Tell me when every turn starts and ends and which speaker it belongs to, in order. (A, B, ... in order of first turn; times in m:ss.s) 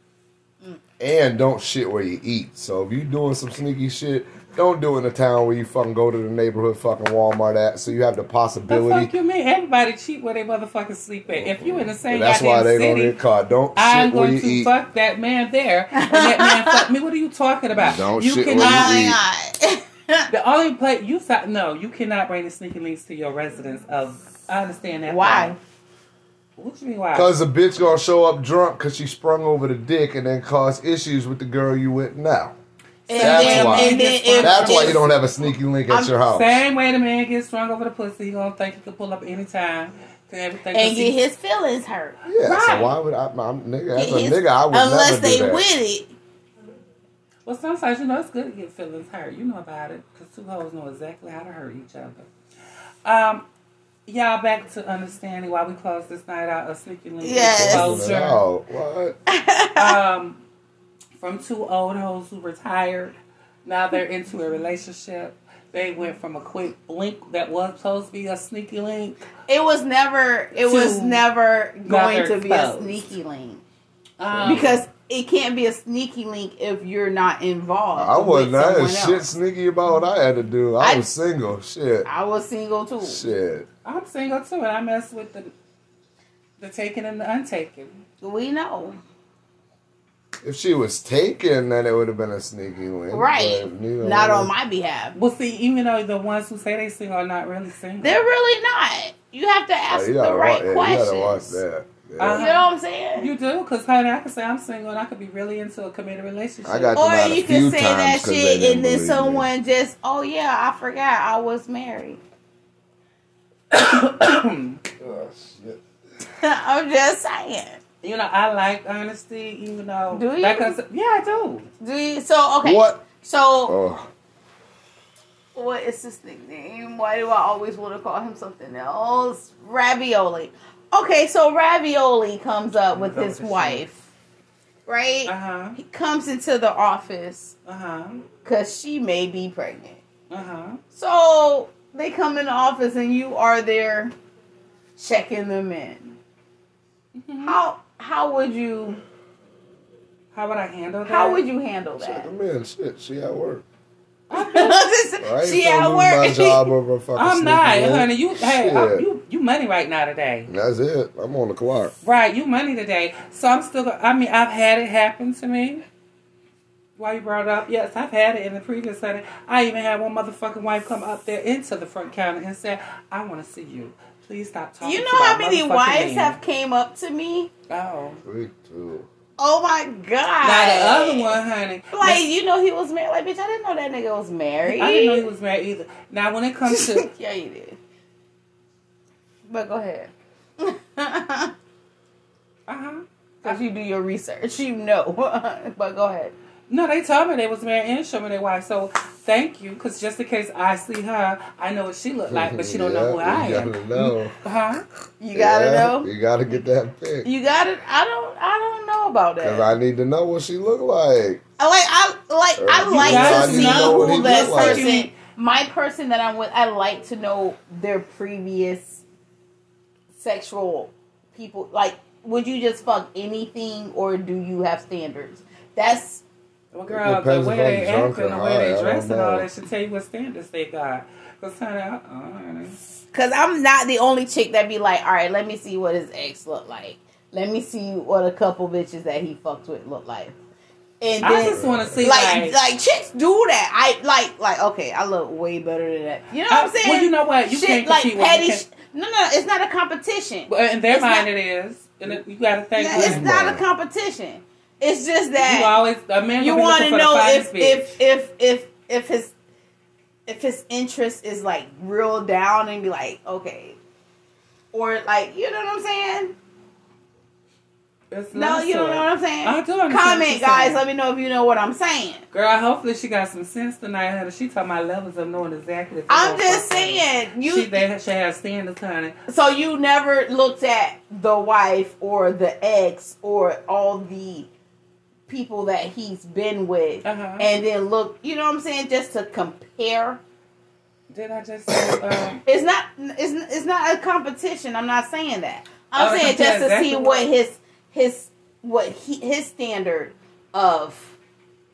0:01.0-0:09.1 A
0:08.7-0:13.2 B
0:11.3-0:14.7 A
0:13.8-0:19.1 B
0:15.9-0:16.8 C
0:17.7-0:19.2 A
0:18.5-0:20.3 C
0:20.3-0:25.6 B
0:25.1-0:25.6 C
0:26.6-0:27.3 B
0:27.1-0:32.5 A
0:33.1-0:35.0 C
0:33.1-0:35.2 B
0:33.2-0:36.6 A
0:36.3-0:41.2 B
0:40.7-0:42.2 C
0:42.2-0:45.6 A
0:42.4-0:43.0 B
0:43.9-0:46.1 C
0:47.4-0:52.3 B
0:53.0-0:53.4 B
0:54.1-0:58.4 B
0:57.2-0:58.0 C
0:57.4-0:59.2 A
0:59.3-1:00.0 C
0:59.8-1:00.4 B
1:01.2-1:09.2 B
1:09.5-1:13.6 C
1:10.5-1:11.2 B
1:11.8-1:13.0 B
1:14.2-1:14.8 B
1:14.2-1:14.6 A
1:14.4-1:19.3 C
1:18.0-1:22.1 A
1:20.8-1:21.0 C
1:22.0-1:23.2 C
1:23.0-1:23.7 A
1:23.8-1:25.5 B
1:26.6-1:28.0 B
1:28.2-1:29.0 C
1:30.4-1:34.5 A
1:33.1-1:35.2 C
1:35.1-1:38.2 B
1:38.0-1:41.6 C
1:39.9-1:42.4 A
1:42.2-1:46.9 B
1:42.3-1:43.3 C
1:46.6-1:49.5 A
1:47.0-1:52.2 C
1:53.7-1:54.8 B
1:55.0-1:55.8 A
1:56.4-1:57.8 C
1:58.0-2:01.7 B
2:00.1-2:00.8 C
2:01.8-2:03.8 C
2:02.6-2:03.0 A
2:03.7-2:04.1 A
2:05.5-2:14.0 C
2:12.9-2:13.8 B
2:14.9-2:17.5 C
2:15.2-2:15.8 B
2:17.6-2:18.2 B
2:18.4-2:20.0 C
2:20.3-2:20.8 B
2:20.9-2:24.1 C
2:25.0-2:26.1 C
2:27.2-2:27.6 B
2:27.4-2:29.0 C
2:30.3-2:31.4 B
2:31.0-2:32.3 C
2:32.0-2:33.6 A
2:34.3-2:34.8 B
2:34.3-2:36.7 C
2:35.2-2:39.0 A
2:37.2-2:40.5 B
2:40.5-2:41.9 A
2:42.0-2:45.8 B
2:47.0-2:56.4 B
2:54.8-2:57.5 C
2:57.7-2:58.2 B
2:58.2-2:59.1 A
2:59.4-3:01.4 C
3:00.4-3:02.2 B
3:01.9-3:05.3 C
3:04.7-3:07.1 B
3:06.7-3:07.8 C
3:09.5-3:11.5 C
3:12.7-3:13.6 B
3:13.4-3:16.3 C
3:16.7-3:24.8 B
3:22.3-3:24.3 A
3:25.2-3:26.1 C
3:25.3-3:27.3 A
3:27.2-3:29.7 C
3:29.4-3:31.4 A
3:31.6-3:39.0 C
3:32.6-3:34.9 A
3:32.9-3:35.1 B
3:40.2-3:46.2 C
3:46.7-3:52.8 B
3:46.9-3:49.5 A
3:53.1-4:00.3 C
4:01.0-4:11.2 C
4:01.2-4:02.6 B
4:01.4-4:02.1 A
4:06.5-4:08.6 B
4:10.5-4:13.2 B
4:12.8-4:15.8 C
4:12.9-4:13.6 A
4:15.4-4:18.0 B
4:16.4-4:19.3 C
4:20.3-4:23.8 C
4:24.7-4:26.4 C
4:28.1-4:30.8 B
4:28.3-4:32.2 C
4:32.3-4:39.2 B
4:36.1-4:37.8 C
4:39.3-4:44.5 C
4:45.3-4:50.2 C
4:47.0-4:47.5 B
4:51.1-4:52.4 B
4:51.7-4:52.0 A
4:52.4-5:01.1 C
4:56.0-4:57.3 B